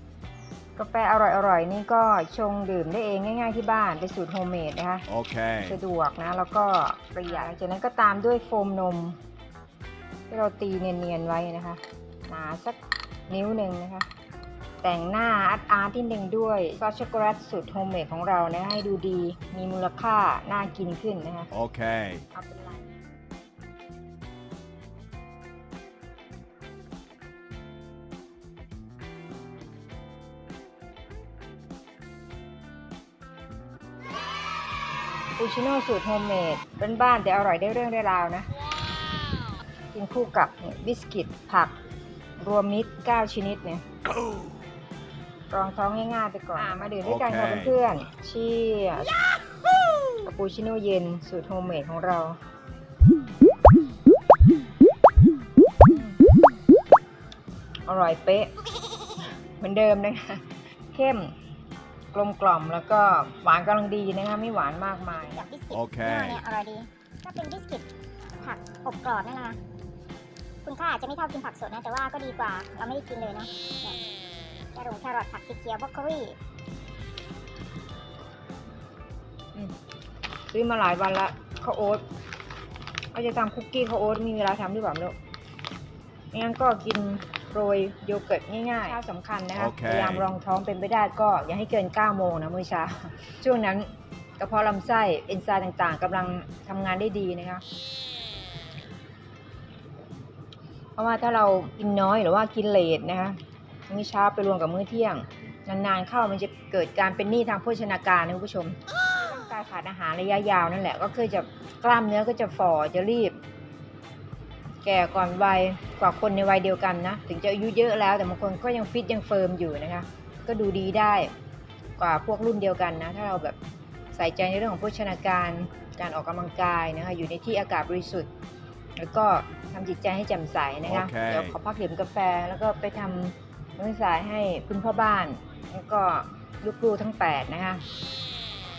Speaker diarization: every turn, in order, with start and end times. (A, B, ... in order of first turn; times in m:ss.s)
0:00.8-0:05.1 A
0:05.1-0:05.8 B
0:05.6-0:09.2 A
0:10.3-0:14.1 A
0:14.8-0:21.5 A
0:21.5-0:22.2 B
0:22.3-0:22.9 A
0:35.4-0:38.5 A
0:39.9-0:41.7 A
0:42.4-0:43.8 A
0:45.5-0:49.2 A
0:47.0-0:47.8 B
0:50.2-0:52.4 A
0:55.8-0:56.2 A
0:57.9-0:58.5 A
0:59.6-1:01.3 A
1:02.1-1:05.5 A
1:05.1-1:07.8 C
1:05.7-1:06.4 B
1:08.4-1:09.6 C
1:10.6-1:14.0 C
1:14.8-1:16.4 C
1:20.5-1:22.0 A
1:23.1-1:25.2 A
1:26.3-1:37.6 A
1:29.5-1:30.2 B
1:41.0-1:53.4 A
1:54.8-2:01.3 A
2:02.0-2:03.6 A
2:04.1-2:08.3 A
2:09.0-2:17.8 A
2:10.8-2:11.6 B